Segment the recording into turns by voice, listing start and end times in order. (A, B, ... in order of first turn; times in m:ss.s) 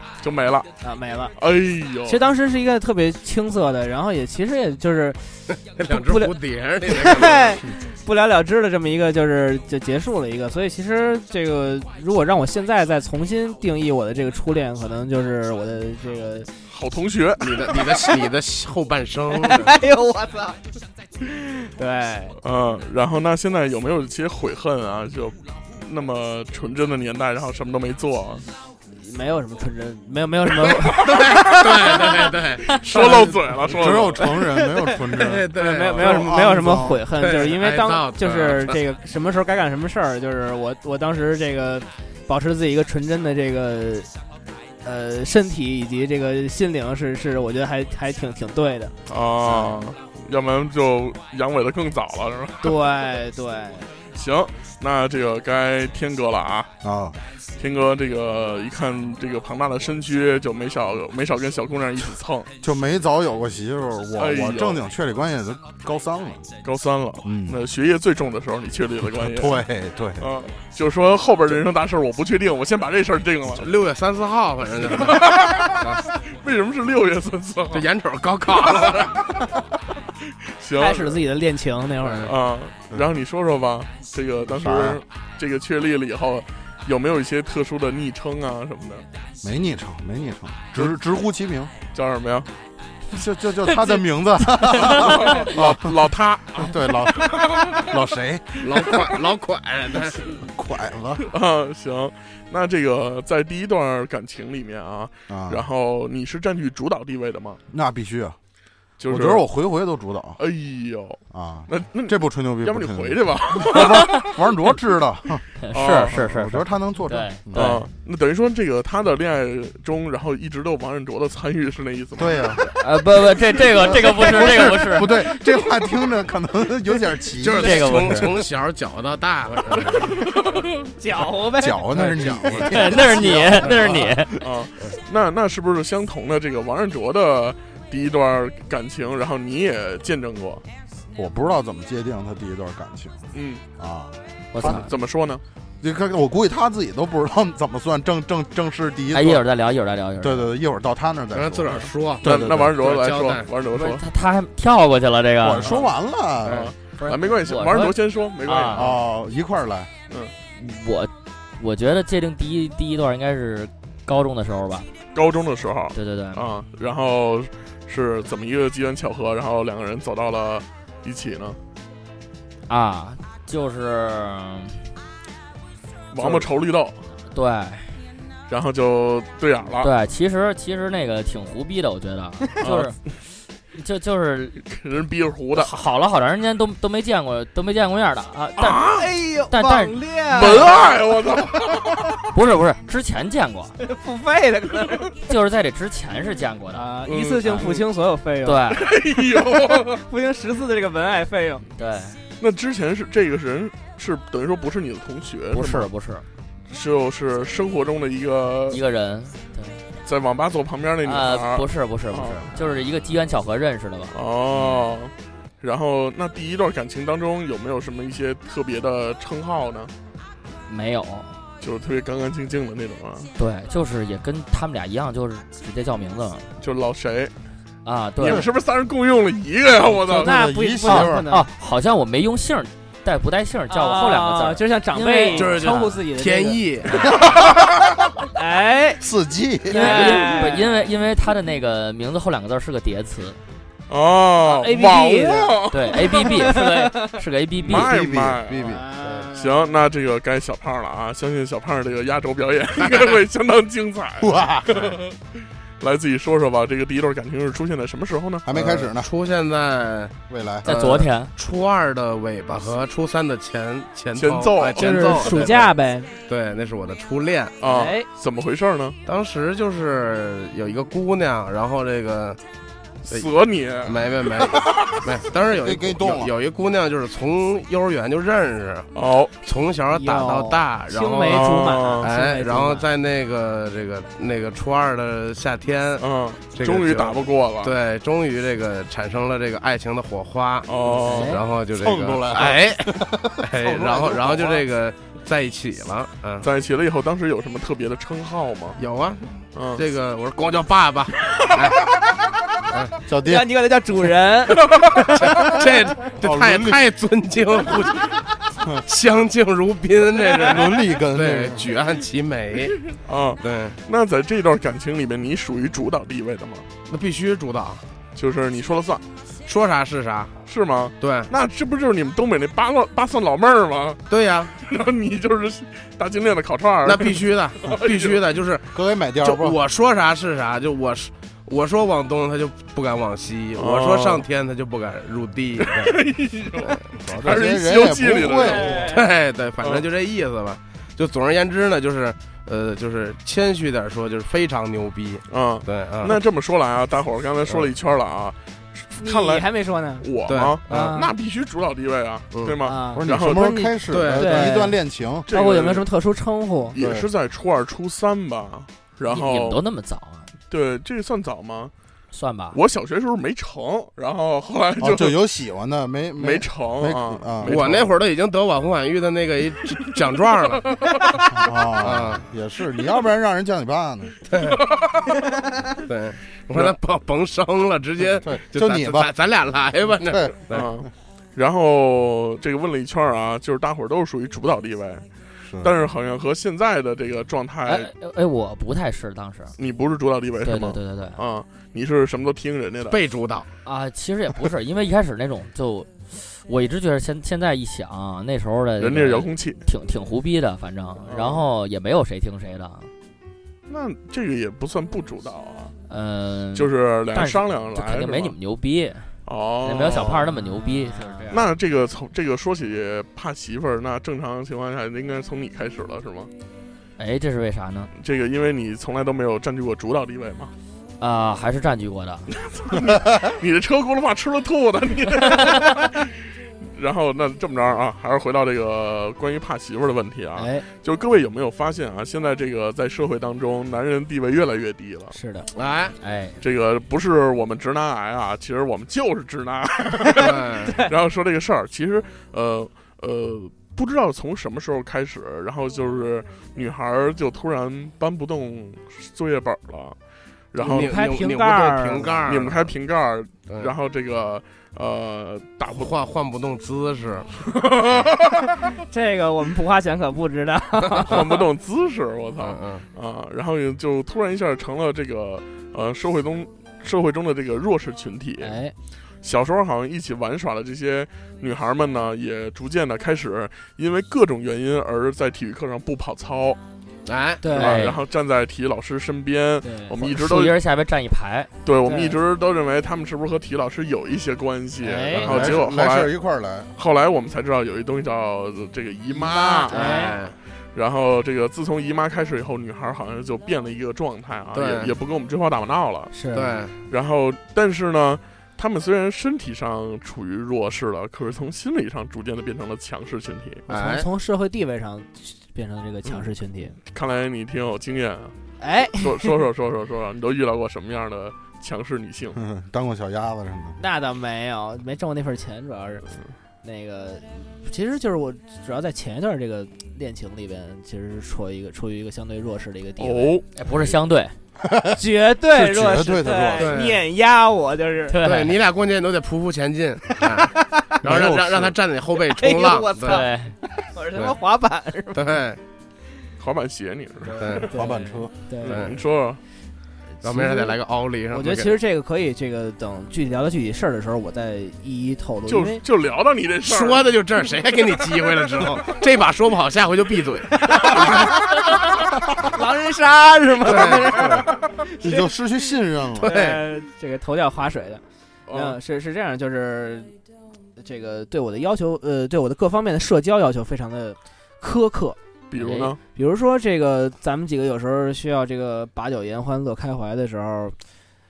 0:00.2-0:00.7 A
0:00.8-0:01.3 B
0:01.4-0:02.2 A
0:02.0-0:16.5 B
0:05.5-0:07.6 C
0:16.7-0:17.8 A
0:17.4-0:19.8 C
0:17.7-0:18.2 B
0:19.3-0:20.6 B
0:21.4-0:22.4 B
0:22.4-0:28.4 A
0:29.0-0:31.2 B
0:30.7-0:34.3 A
0:31.1-0:33.1 C
0:32.9-0:35.0 B
0:33.6-0:37.0 D
0:35.2-0:36.3 C
0:35.5-0:44.1 B
0:37.2-0:38.8 C
0:44.8-0:49.8 B
0:49.1-0:52.8 A
0:52.6-0:53.9 B
0:54.1-0:56.7 A
0:56.8-0:57.2 D
0:57.6-1:02.5 A
1:02.6-1:06.4 D
1:04.2-1:04.8 A
1:06.6-1:09.7 A
1:07.2-1:07.6 D
1:09.0-1:10.3 D
1:10.2-1:13.6 A
1:13.6-1:16.0 C
1:14.8-1:17.9 A
1:17.7-1:19.2 C
1:18.6-1:19.4 A
1:20.6-1:21.2 A
1:20.8-1:22.4 B
1:22.0-1:22.3 C
1:22.2-1:29.0 A
1:24.5-1:25.0 D
1:29.4-1:31.7 D
1:31.9-1:32.5 A
1:33.1-1:36.0 D
1:34.8-1:38.0 A
1:36.5-1:39.1 D
1:38.6-1:40.3 C
1:40.3-1:41.2 D
1:41.3-1:47.6 A
1:45.3-1:45.6 D
1:47.7-1:48.4 D
1:49.0-1:49.4 A
1:49.1-1:50.4 D
1:50.4-1:54.5 A
1:51.3-1:57.8 D
1:55.6-1:57.8 E
1:55.7-1:56.2 A
1:57.5-2:02.6 A
2:02.2-2:02.6 D
2:02.7-2:05.2 E
2:03.6-2:08.4 D
2:07.4-2:10.2 C
2:07.6-2:08.3 E
2:10.2-2:10.9 A
2:11.0-2:11.9 B
2:11.6-2:14.1 D
2:11.9-2:14.1 C
2:12.6-2:14.3 E
2:14.4-2:20.6 A
2:21.2-2:23.2 D
2:23.3-2:23.6 A
2:23.8-2:24.1 D
2:24.5-2:24.9 E
2:24.6-2:25.4 A
2:25.8-2:29.4 D
2:29.1-2:30.5 E
2:30.2-2:32.7 D
2:31.3-2:33.5 C
2:32.2-2:34.0 A
2:33.7-2:35.7 E
2:35.4-2:36.7 D
2:36.4-2:39.0 A
2:37.0-2:38.9 E
2:38.7-2:39.9 D
2:40.6-2:44.9 E
2:45.1-2:51.6 A
2:45.9-2:46.4 E
2:52.7-2:54.8 E
2:56.1-2:57.0 A
2:57.3-2:58.0 E
2:58.5-2:59.9 A
2:59.8-3:03.0 E
3:02.6-3:02.9 A
3:03.7-3:04.6 E
3:04.6-3:05.7 A
3:05.5-3:08.9 E
3:08.6-3:09.1 A
3:08.7-3:11.0 B
3:09.5-3:10.8 E
3:10.3-3:12.2 A
3:12.3-3:13.8 E
3:13.8-3:15.1 B
3:15.2-3:16.9 E
3:16.7-3:21.6 B
3:17.0-3:17.8 C
3:17.4-3:17.7 E
3:18.4-3:18.9 E
3:18.7-3:20.0 A
3:21.8-3:22.2 E
3:22.4-3:25.8 A
3:25.5-3:26.2 E
3:26.7-3:28.8 A
3:28.7-3:29.8 E
3:30.0-3:32.9 A
3:31.0-3:34.8 E
3:34.1-3:39.9 A
3:40.7-3:41.4 E
3:41.6-3:43.3 A
3:43.4-3:46.5 E
3:46.6-3:47.3 A
3:47.8-3:48.5 E
3:48.2-3:50.4 A
3:50.1-3:51.5 B
3:50.1-3:51.3 D
3:50.9-3:56.0 E
3:53.7-3:57.2 B
3:55.3-3:57.1 C
3:57.3-3:57.9 D
3:58.3-3:59.0 B
3:59.0-4:00.2 D
3:59.7-4:00.9 B
3:59.7-4:03.4 E
4:03.9-4:06.1 A
4:04.4-4:07.1 B
4:05.7-4:07.9 E
4:07.6-4:08.8 A
4:07.7-4:08.8 D
4:08.6-4:09.7 B
4:09.3-4:15.2 A
4:14.2-4:15.0 D
4:15.8-4:18.5 A
4:18.4-4:19.1 D
4:18.5-4:20.1 C
4:20.3-4:20.7 D
4:20.6-4:21.3 E
4:20.6-4:25.7 C
4:24.1-4:25.5 A
4:24.7-4:26.1 B
4:26.2-4:27.6 C
4:27.6-4:29.0 A
4:27.6-4:28.0 B
4:29.0-4:32.4 C
4:33.0-4:34.4 A
4:33.8-4:38.9 C
4:35.6-4:36.3 D
4:38.9-4:39.3 A
4:39.4-4:46.0 C
4:39.9-4:42.9 B
4:41.3-4:42.0 A
4:46.0-4:47.7 A
4:46.6-4:56.5 C
4:50.7-4:51.4 A
4:51.0-4:51.4 B
4:51.8-4:54.6 D
4:56.4-4:58.8 A
4:58.8-5:01.9 C
4:59.5-4:59.8 A
5:02.7-5:02.9 C
5:03.1-5:03.5 D
5:03.2-5:05.7 B
5:04.5-5:05.0 A
5:05.0-5:08.1 C
5:06.2-5:06.8 D
5:08.9-5:12.8 C
5:10.4-5:11.7 D
5:12.9-5:16.7 A
5:13.4-5:13.8 C
5:16.9-5:17.8 C
5:18.2-5:19.0 A
5:19.4-5:20.3 C
5:20.4-5:24.0 A
5:21.0-5:21.3 C
5:24.1-5:24.5 C
5:24.6-5:28.2 A
5:26.8-5:36.0 C
5:28.7-5:29.6 D
5:33.6-5:34.2 A
5:35.6-5:38.9 A
5:37.0-5:38.9 D
5:38.4-5:39.0 B
5:38.9-5:46.2 C
5:45.3-5:49.5 A
5:49.0-5:50.1 B
5:50.0-5:53.6 A
5:50.2-5:50.9 C
5:50.7-5:51.1 B
5:52.3-5:52.6 C
5:52.6-5:56.8 B
5:52.9-5:55.3 D
5:53.9-5:54.5 C
5:55.3-5:55.8 A
5:56.7-5:59.6 A
5:56.7-5:57.1 D
5:59.1-6:00.3 E
6:00.5-6:01.7 A
6:02.1-6:02.6 E
6:02.5-6:05.2 A
6:04.8-6:07.8 D
6:06.2-6:07.9 A
6:07.4-6:10.8 C
6:11.3-6:14.1 D
6:11.8-6:12.2 C
6:14.3-6:14.6 C
6:14.5-6:15.3 A
6:15.8-6:20.7 C
6:18.2-6:19.1 D
6:20.0-6:20.6 D
6:20.5-6:25.0 A
6:25.4-6:25.7 D
6:25.6-6:27.9 A
6:27.6-6:29.5 E
6:29.6-6:33.0 A
6:30.4-6:31.2 E
6:32.9-6:33.5 C
6:33.6-6:42.9 E
6:38.8-6:39.6 A
6:41.1-6:41.4 A
6:43.7-6:45.7 A
6:45.9-6:51.4 E
6:46.5-6:48.3 A
6:49.2-6:50.3 A
6:50.2-6:51.4 B
6:51.3-6:56.3 A
6:57.0-6:57.9 E
6:58.0-7:00.5 A
7:01.0-7:02.3 E
7:02.4-7:06.1 A
7:06.8-7:15.2 A
7:10.4-7:10.6 B
7:15.1-7:15.5 B
7:15.5-7:16.0 C
7:16.0-7:16.4 E
7:16.4-7:30.0 A
7:20.2-7:20.8 C
7:30.5-7:31.2 A
7:30.6-7:32.3 B
7:30.6-7:32.7 C
7:32.2-7:35.9 A
7:35.7-7:37.3 C
7:37.4-7:38.6 A
7:38.7-7:41.5 B
7:41.0-7:48.6 A
7:42.4-7:42.8 C
7:48.4-7:48.7 B
7:49.2-7:56.6 A
7:57.0-7:57.5 C
7:57.4-7:57.8 B
7:57.5-8:00.5 A
7:57.5-7:58.0 E
7:59.6-8:00.0 B
8:00.0-8:01.5 E
8:01.6-8:06.1 A
8:01.8-8:02.2 B
8:04.8-8:05.6 B
8:05.2-8:06.7 D
8:06.8-8:10.0 A
8:09.1-8:10.2 B
8:09.7-8:10.4 C
8:10.7-8:16.1 A
8:14.5-8:14.9 C
8:16.1-8:16.6 B
8:16.3-8:16.8 C
8:16.9-8:23.6 A
8:23.7-8:24.1 C
8:23.7-8:26.8 B
8:26.9-8:28.3 A
8:28.6-8:29.4 B
8:29.0-8:32.4 A
8:32.3-8:33.8 D
8:33.8-8:36.0 B
8:36.6-8:43.4 B
8:43.0-8:43.4 A
8:43.6-8:44.3 E
8:44.6-8:46.8 D
8:44.9-8:48.2 B
8:46.6-8:47.0 C
8:48.1-8:48.5 E
8:48.2-8:53.2 C
8:50.2-8:50.8 B
8:51.0-8:51.8 D
8:52.2-8:55.3 B
8:53.0-8:53.5 E
8:55.1-8:55.6 C
8:56.4-8:57.6 A
8:57.2-8:58.9 B
8:57.4-8:57.7 C
8:57.7-8:58.3 D
8:58.6-8:59.4 A
8:58.6-8:59.0 C
9:00.2-9:00.8 B
9:00.2-9:01.8 C
9:01.3-9:05.8 B
9:05.4-9:07.1 A
9:06.6-9:11.3 C
9:10.5-9:15.3 B
9:13.6-9:14.0 C
9:13.6-9:14.4 D
9:15.0-9:16.4 D
9:16.2-9:20.1 B
9:16.2-9:16.6 C
9:18.5-9:18.8 A
9:20.8-9:25.2 B
9:25.5-9:26.0 A
9:25.6-9:25.9 E
9:26.1-9:30.8 B